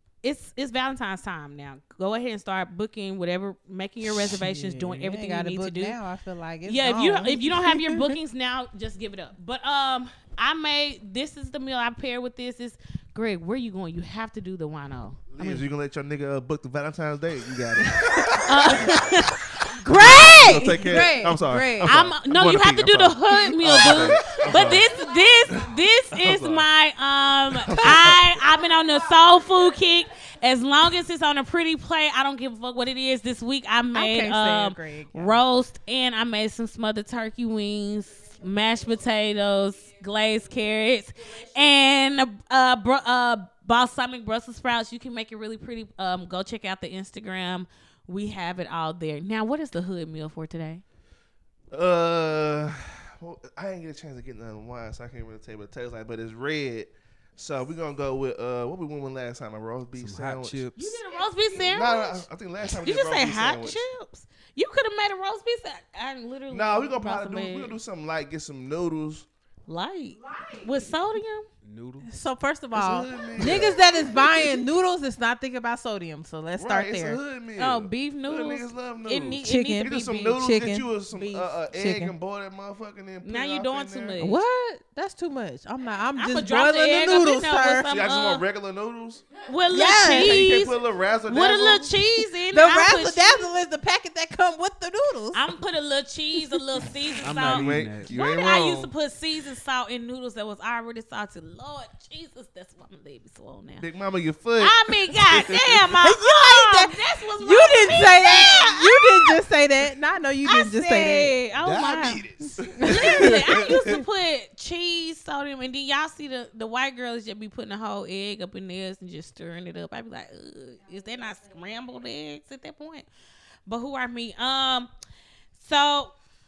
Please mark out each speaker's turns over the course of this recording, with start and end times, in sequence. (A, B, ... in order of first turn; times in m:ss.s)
0:00.2-0:06.0 A
0:04.1-0:08.2 B
0:06.6-0:15.6 A
0:15.3-0:24.9 C
0:17.9-0:18.3 B
0:18.4-0:21.0 A
0:20.0-0:22.0 B
0:21.8-0:50.8 A
0:23.9-0:24.3 B
0:26.1-0:26.7 C
0:27.6-0:28.3 C
0:33.9-0:35.4 B
0:51.7-1:00.7 C
1:00.0-1:01.0 D
1:00.8-1:07.8 A
1:01.5-1:03.8 C
1:06.5-1:09.3 C
1:09.7-1:11.5 A
1:11.6-1:12.1 D
1:12.0-1:17.2 B
1:12.7-1:14.6 C
1:16.6-1:24.2 C
1:17.6-1:20.3 A
1:19.4-1:20.9 B
1:21.1-1:21.5 A
1:21.7-1:22.1 B
1:23.2-1:24.4 A
1:24.2-1:27.9 B
1:26.2-1:28.4 A
1:27.9-1:29.3 C
1:29.5-1:33.5 A
1:29.7-1:30.6 B
1:29.9-1:32.0 C
1:32.5-1:35.5 B
1:35.3-1:43.9 A
1:37.2-1:38.1 D
1:37.4-1:38.9 C
1:43.8-1:45.8 C
1:44.6-1:49.4 A
1:46.0-1:51.4 B
1:50.4-1:52.2 A
1:51.5-1:54.0 E
1:52.6-1:53.3 C
1:52.8-2:03.1 A
2:03.7-2:04.9 A
2:05.6-2:06.1 A